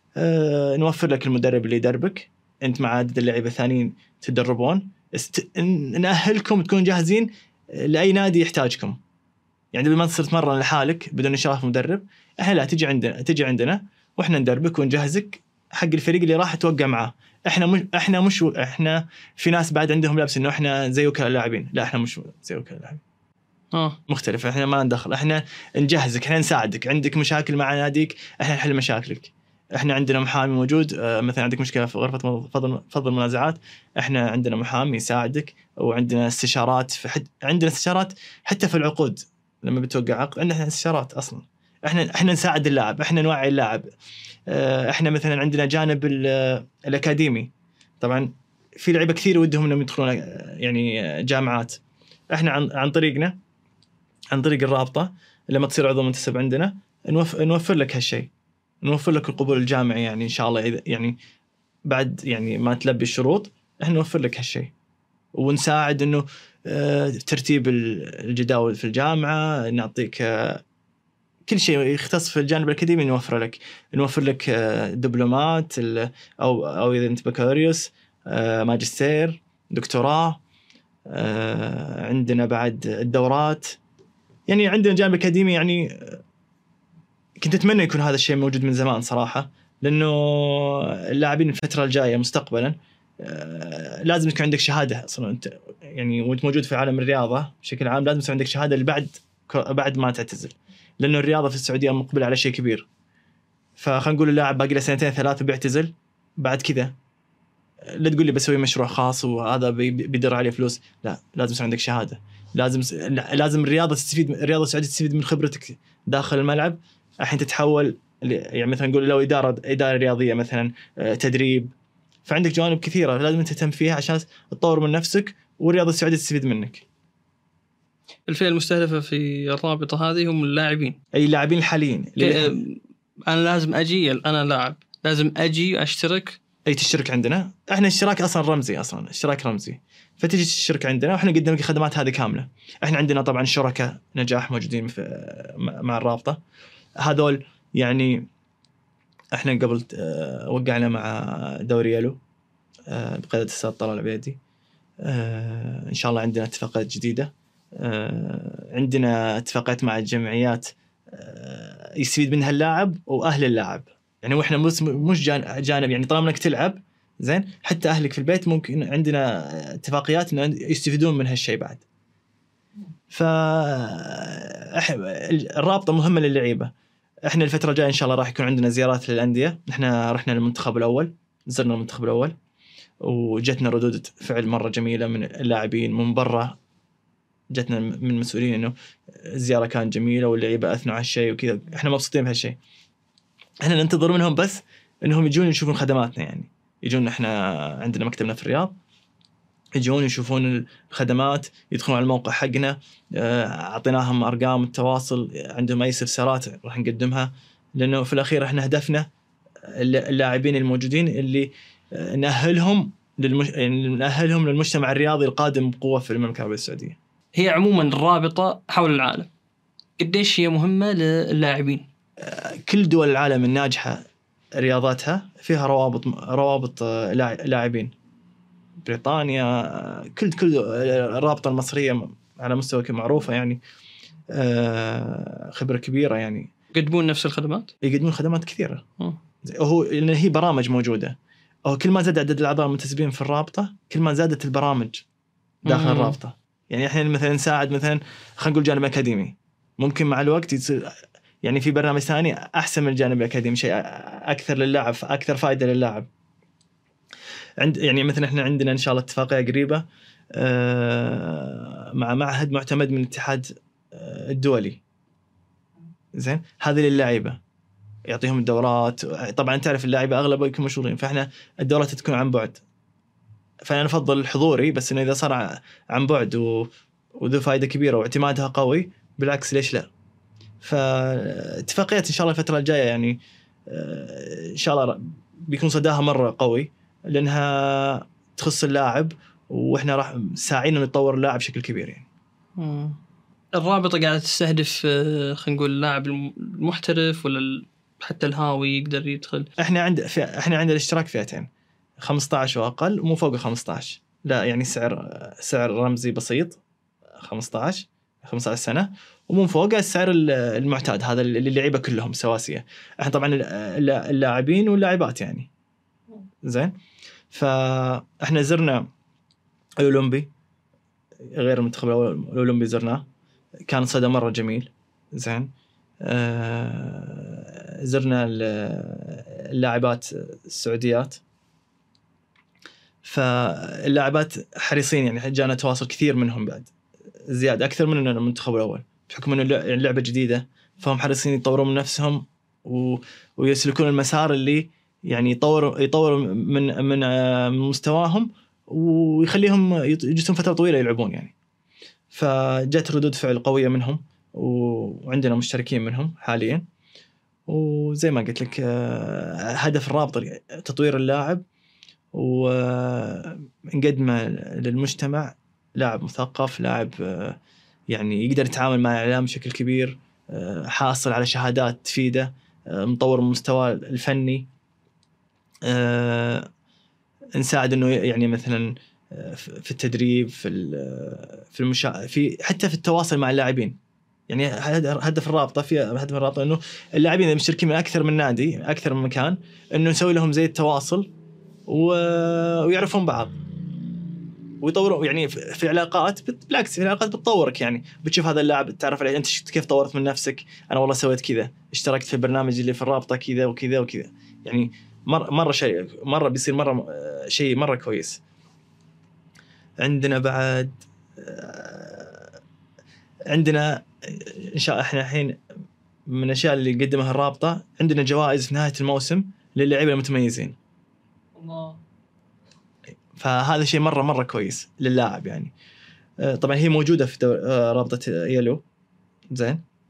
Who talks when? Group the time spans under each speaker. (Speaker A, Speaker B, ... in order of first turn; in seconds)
Speaker A: 0.2-9.0, 9.7-23.0, 24.1-43.9, 44.5-47.5, 48.0-51.8, 52.3-53.3, 54.3-58.3, 58.8-61.1, 61.9-64.7, 65.3-70.6, 71.5-80.4, 81.1-83.8, 84.5-86.2, 87.4-102.9, 103.8-106.9, 107.8-121.7, 122.2-126.8, 131.1-132.6, 136.7-146.4, 147.0-148.3, 149.3-152.2, 152.9-154.4, 155.0-171.8, 173.1-176.7, 177.3-182.3, 183.0-186.5, 187.5-192.6, 193.6-198.7, 199.8-209.1, 209.7-217.0, 222.2-224.0, 224.6-227.9, 228.8-233.6, 234.3-236.5, 237.8-238.8, 239.4-245.0, 245.6-256.1, 257.6-259.8, 260.3-264.8, 266.2-267.4, 268.1-272.6, 273.6-276.7, 277.2-279.9, 280.6-283.1, 283.7-292.1, 299.6-301.5, 302.0-306.6, 307.2-315.5, 316.4-316.7, 317.3-318.9, 319.8-320.3, 321.3-323.0, 323.7-325.5, 326.0-331.2, 333.0-336.7, 337.3-351.3, 352.1-356.6, 357.5-361.4, 362.1-367.4, 367.9-374.5, 375.6-376.5, 377.4-383.8, 384.3-391.1, 391.7-393.4, 394.6-408.2, 409.8-412.3, 413.3-415.4, 416.1-420.6, 423.1-425.5, 426.2-428.6, 429.3-429.6
Speaker B: 23.7-24.0, 128.3-131.0, 132.2-136.4, 217.3-219.3, 220.0-221.9, 236.7-237.7, 245.6-246.2, 292.6-293.0, 293.5-299.5, 421.3-421.8